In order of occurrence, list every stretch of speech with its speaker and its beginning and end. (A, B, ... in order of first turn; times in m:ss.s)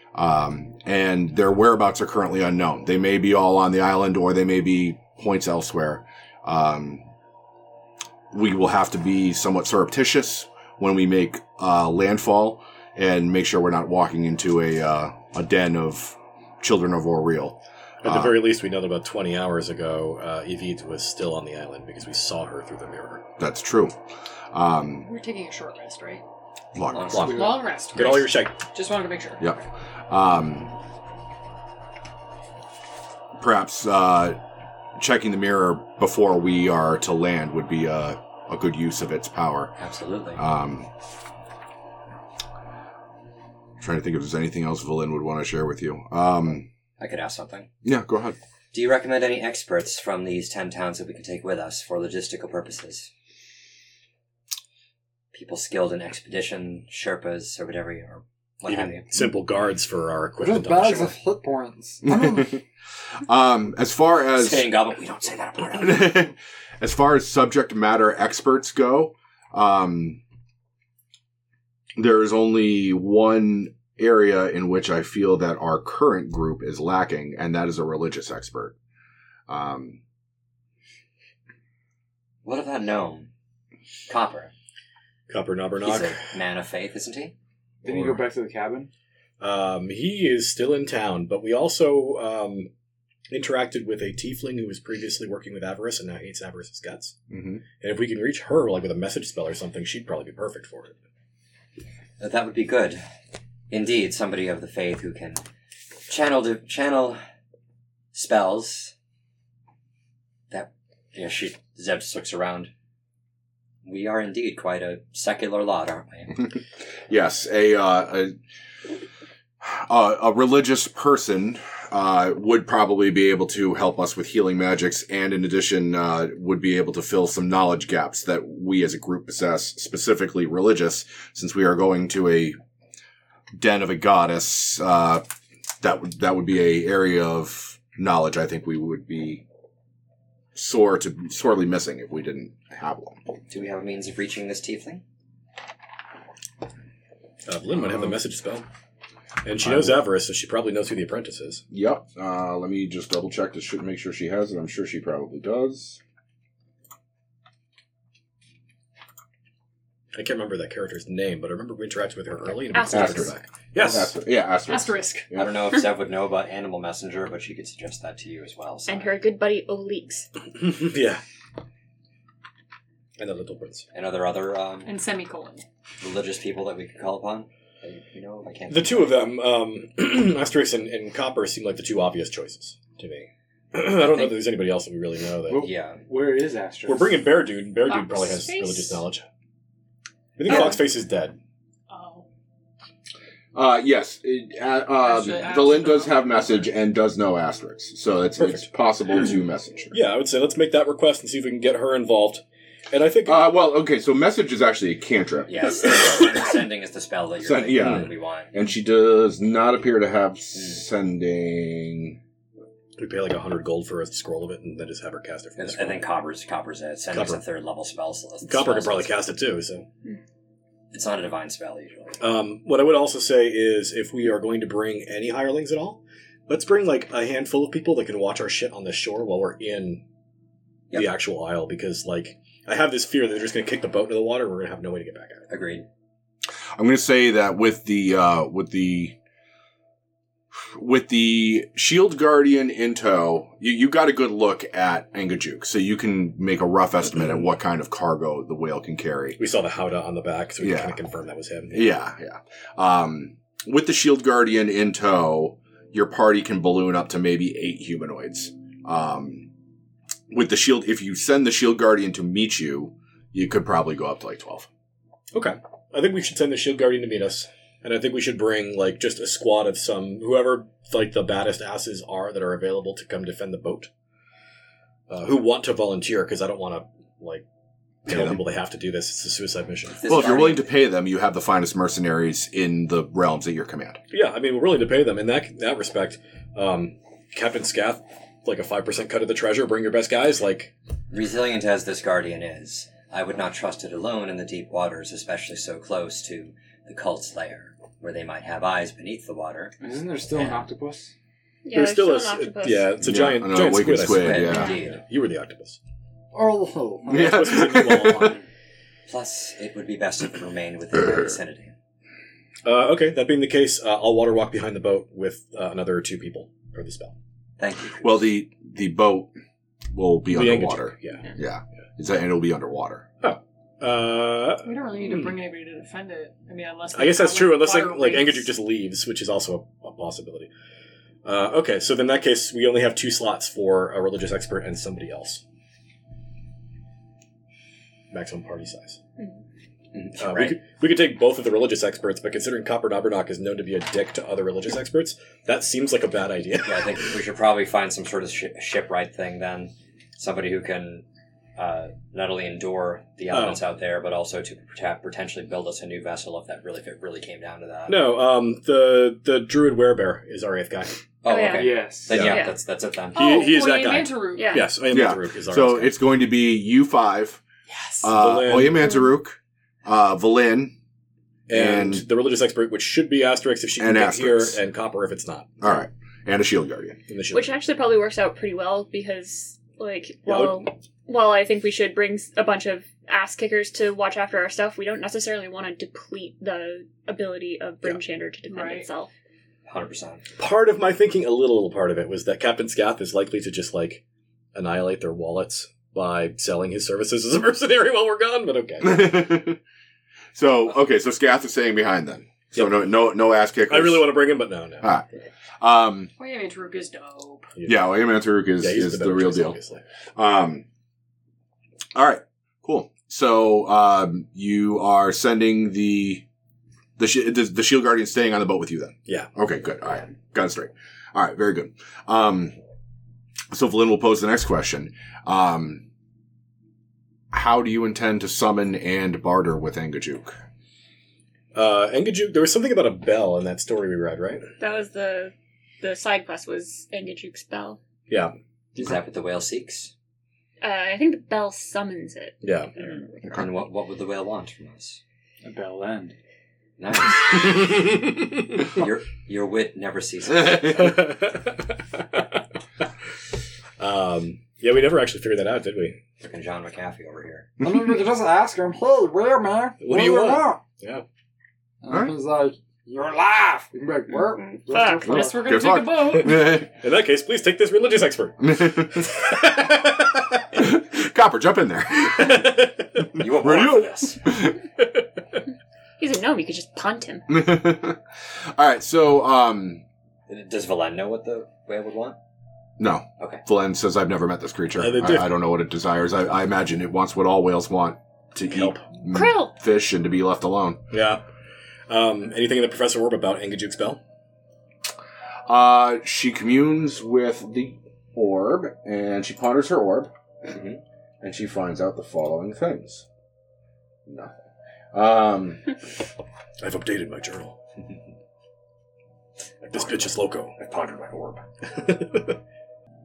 0:00.1-0:07.0 A
0:08.3-0:18.4 A
0:18.0-0:23.2 B
0:23.4-0:24.0 A
0:24.5-0:25.1 A
0:25.0-0:26.2 C
0:26.8-0:27.5 A
0:26.8-0:27.6 D
0:27.1-0:28.6 B
0:27.3-0:29.5 C
0:29.4-0:30.7 A
0:33.4-0:34.4 A
0:35.0-0:39.7 A
0:39.8-0:40.4 D
0:40.4-0:40.9 A
0:43.8-0:46.7 A
0:47.0-0:47.7 D
0:47.8-0:48.4 A
0:48.7-0:53.1 D
0:55.3-0:59.1 D
0:58.7-1:01.2 B
1:00.4-1:02.6 E
1:02.1-1:02.6 A
1:03.2-1:04.7 A
1:04.3-1:06.3 D
1:05.8-1:10.2 A
1:12.0-1:18.8 A
1:19.5-1:20.0 A
1:22.4-1:23.3 D
1:24.1-1:24.5 D
1:25.3-1:26.2 B
1:25.8-1:27.3 D
1:27.8-1:28.9 F
1:29.4-1:32.7 B
1:33.3-1:37.2 B
1:37.3-1:37.6 A
1:37.8-1:41.0 B
1:42.2-1:43.0 D
1:43.7-1:45.4 D
1:46.1-1:47.2 D
1:48.1-1:48.9 D
1:50.5-1:52.7 D
1:53.8-1:56.5 D
1:57.1-1:58.3 A
1:59.6-2:12.6 A
2:13.6-2:15.2 A
2:15.8-2:19.4 A
2:20.5-2:23.2 A
2:23.5-2:25.0 D
2:27.5-2:28.6 B
2:29.4-2:31.6 B
2:29.6-2:30.0 A
2:31.7-2:36.0 A
2:40.1-2:44.1 B
2:42.7-2:43.4 G
2:42.9-2:45.7 A
2:44.6-2:45.3 C
2:45.4-2:49.2 D
2:48.9-2:50.3 G
2:50.6-2:51.2 B
2:53.2-2:53.8 B
2:53.9-2:54.9 D
2:54.8-2:55.6 C
2:56.0-2:59.2 D
2:58.7-3:05.6 B
3:04.0-3:04.3 D
3:05.5-3:07.4 F
3:05.6-3:06.0 D
3:06.9-3:09.2 B
3:07.9-3:09.0 G
3:10.4-3:11.4 B
3:11.9-3:12.2 C
3:13.5-3:20.0 A
3:15.0-3:16.5 C
3:18.4-3:18.7 B
3:19.9-3:23.5 B
3:23.2-3:26.4 A
3:25.5-3:28.5 D
3:27.4-3:32.2 A
3:30.5-3:30.8 D
3:33.0-3:36.0 B
3:35.6-3:39.1 D
3:37.1-3:37.4 B
3:38.4-3:39.9 B
3:40.9-3:42.2 D
3:42.2-3:50.0 B
3:50.9-3:55.5 B
3:55.5-3:55.8 D
3:56.8-3:59.2 A
4:00.8-4:09.4 A
4:09.4-4:12.0 B
4:10.6-4:11.0 A
4:11.7-4:19.5 A
4:20.3-4:24.7 A
4:25.3-4:33.9 B
4:35.1-4:37.4 B
4:38.1-4:38.4 A
4:38.1-4:40.2 B
4:40.0-4:40.7 D
4:40.1-4:44.0 A
4:44.1-4:50.7 B
4:51.1-4:59.8 D
4:59.8-5:01.1 F
5:00.3-5:00.7 D
5:01.6-5:03.0 G
5:01.7-5:05.8 B
5:03.0-5:04.8 A
5:04.0-5:05.0 D
5:06.3-5:07.5 E
5:07.1-5:08.4 B
5:07.1-5:08.4 A
5:09.1-5:11.8 D
5:12.6-5:17.1 B
5:17.6-5:18.2 D
5:18.0-5:19.3 A
5:19.9-5:23.1 A
5:20.3-5:21.3 B
5:23.2-5:25.3 B
5:24.6-5:28.5 C
5:26.9-5:30.5 B
5:31.2-5:35.4 B
5:38.1-5:39.0 B
5:39.9-5:40.6 D
5:40.2-5:47.2 B
5:46.6-5:51.0 D
5:51.6-5:58.1 D
5:53.3-5:53.6 B
5:57.9-6:01.0 B
6:01.2-6:03.5 D
6:01.3-6:02.6 G
6:01.5-6:02.2 F
6:02.1-6:02.4 B
6:03.1-6:04.6 C
6:03.1-6:06.0 B
6:04.4-6:04.7 G
6:04.9-6:07.4 A
6:07.7-6:08.1 C
6:08.0-6:10.8 A
6:08.1-6:08.9 B
6:11.5-6:15.6 B
6:11.5-6:12.0 A
6:13.8-6:14.6 A
6:15.6-6:17.0 A
6:17.1-6:17.6 B
6:17.3-6:29.1 G
6:20.2-6:20.6 B
6:28.5-6:28.9 C
6:29.6-6:30.3 D
6:30.4-6:34.0 B
6:34.5-6:39.4 B
6:38.8-6:39.6 A
6:40.4-6:44.3 A
6:42.5-6:42.9 B
6:43.7-6:44.9 B
6:44.8-6:45.1 A
6:45.6-6:46.1 A
6:46.2-6:47.5 C
6:47.6-6:48.0 B
6:47.6-6:49.6 A
6:48.6-6:49.8 B
6:50.2-6:50.6 A
6:52.0-6:56.2 A
6:57.0-7:02.5 A
7:03.5-7:05.8 A
7:07.3-7:10.4 A
7:11.5-7:14.4 B
7:14.6-7:17.8 G
7:18.8-7:19.9 D
7:20.6-7:23.4 G
7:22.4-7:22.7 B
7:23.3-7:25.0 D
7:25.4-7:26.2 F
7:26.8-7:28.0 D
7:28.6-7:31.0 D
7:30.6-7:32.4 B
7:33.8-7:36.0 B
7:36.2-7:37.5 D
7:37.6-7:40.6 E
7:37.6-7:37.9 A
7:39.8-7:41.0 B
7:41.8-7:45.5 E
7:41.9-7:42.2 A
7:44.4-7:45.1 G
7:45.0-7:46.4 C
7:45.1-7:46.7 A
7:45.9-7:50.5 B
7:48.4-7:49.3 A
7:50.3-7:52.6 A
7:52.2-7:53.0 B
7:53.1-7:54.2 D
7:53.2-7:54.6 A
7:56.0-7:57.3 G
7:57.3-7:59.8 A
8:00.3-8:02.2 D
8:02.8-8:10.8 A
8:03.2-8:03.4 D
8:04.8-8:05.3 B
8:08.5-8:08.8 B
8:09.1-8:09.5 G
8:10.9-8:11.2 B
8:11.9-8:14.0 B
8:15.5-8:20.6 A
8:21.2-8:23.1 A
8:24.1-8:24.3 A
8:24.9-8:25.6 A
8:26.6-8:27.6 B
8:29.6-8:30.5 B
8:30.6-8:31.4 A
8:31.7-8:32.4 B